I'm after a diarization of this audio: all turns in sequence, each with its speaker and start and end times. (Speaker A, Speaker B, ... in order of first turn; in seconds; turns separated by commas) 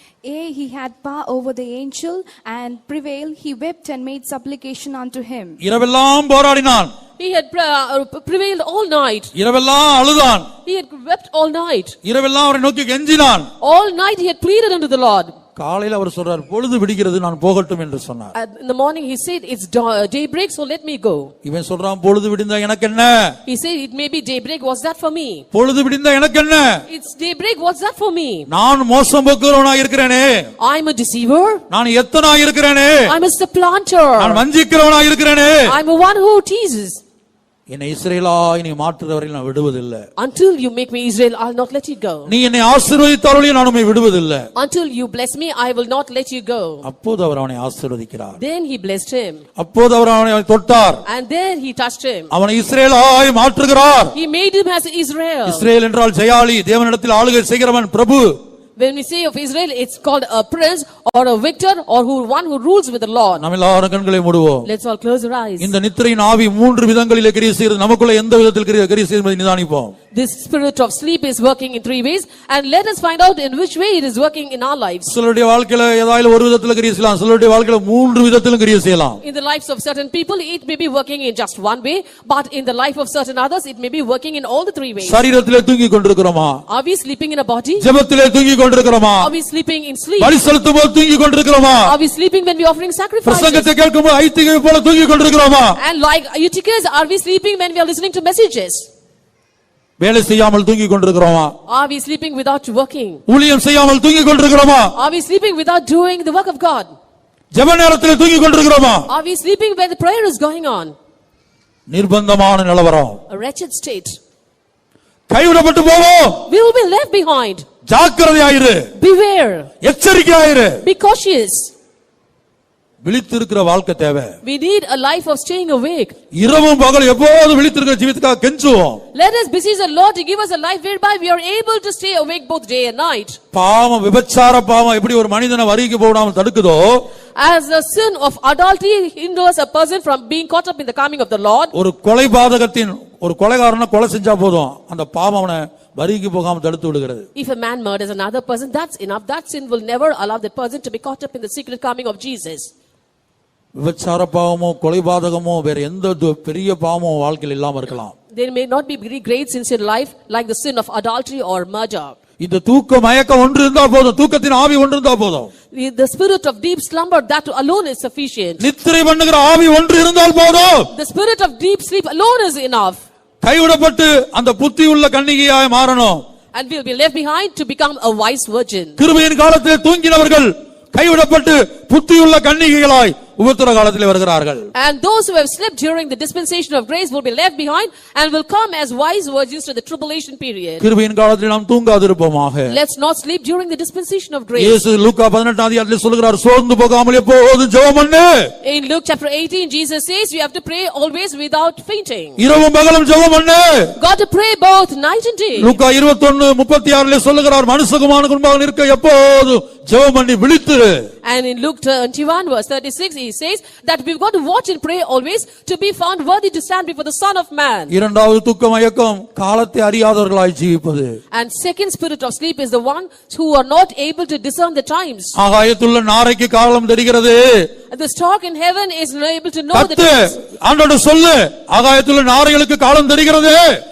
Speaker A: 0.2-5.6, Speaker B: 5.6-6.9, Speaker C: 7.2-9.3, Speaker B: 9.3-10.5, Speaker C: 10.7-11.9, Speaker B: 12.0-13.5, Speaker C: 13.6-15.3, Speaker B: 15.6-18.3, Speaker C: 18.3-21.3, Speaker B: 21.4-23.3, Speaker C: 23.4-25.4, Speaker B: 25.5-26.8, Speaker C: 26.9-28.5, Speaker B: 28.5-30.5, Speaker C: 30.6-31.6, Speaker B: 31.7-33.1, Speaker C: 33.0-34.4, Speaker B: 34.2-35.7, Speaker C: 35.7-37.0, Speaker B: 37.7-40.0, Speaker C: 40.2-42.3, Speaker B: 42.3-44.5, Speaker C: 44.5-46.8, Speaker B: 46.8-48.4, Speaker C: 48.4-49.4, Speaker B: 49.6-51.0, Speaker C: 51.0-52.3, Speaker B: 52.3-54.1, Speaker C: 54.1-55.7, Speaker B: 55.5-58.4, Speaker C: 58.8-63.4, Speaker B: 63.4-64.7, Speaker C: 64.6-65.7, Speaker B: 65.6-69.9, Speaker C: 70.1-75.1, Speaker B: 75.1-79.2, Speaker C: 79.2-85.2, Speaker B: 85.0-86.6, Speaker C: 86.7-87.9, Speaker B: 87.8-89.3, Speaker C: 89.2-90.3, Speaker B: 90.2-91.9, Speaker C: 91.8-93.7, Speaker B: 93.2-95.8, Speaker C: 95.8-98.9, Speaker B: 100.0-101.5, Speaker C: 101.7-103.2, Speaker B: 103.3-104.9, Speaker C: 105.0-106.9, Speaker B: 107.5-109.1, Speaker C: 109.1-110.9, Speaker B: 111.9-113.2, Speaker C: 113.3-114.2, Speaker B: 115.3-116.4, Speaker C: 116.5-117.6, Speaker B: 117.9-118.8, Speaker C: 119.0-119.7, Speaker B: 119.8-120.8, Speaker C: 120.8-121.7, Speaker B: 123.0-124.3, Speaker C: 124.4-126.2, Speaker B: 126.3-129.0, Speaker C: 129.1-133.4, Speaker B: 133.5-137.0, Speaker C: 137.3-141.7, Speaker B: 141.7-147.3, Speaker C: 147.3-152.7, Speaker B: 153.8-158.1, Speaker C: 158.3-162.2, Speaker B: 162.4-165.5, Speaker C: 165.7-168.7, Speaker B: 168.6-170.9, Speaker C: 170.9-173.0, Speaker B: 173.4-176.2, Speaker C: 176.5-179.0, Speaker B: 179.0-184.7, Speaker C: 184.7-190.8, Speaker B: 190.8-192.8, Speaker C: 192.7-194.8, Speaker B: 194.6-198.5, Speaker C: 198.6-202.4, Speaker B: 202.4-203.9, Speaker C: 204.0-205.8, Speaker B: 205.6-211.1, Speaker C: 211.2-217.9, Speaker B: 217.9-221.2, Speaker C: 221.3-225.3, Speaker B: 225.3-227.7, Speaker C: 227.9-230.4, Speaker B: 229.7-233.8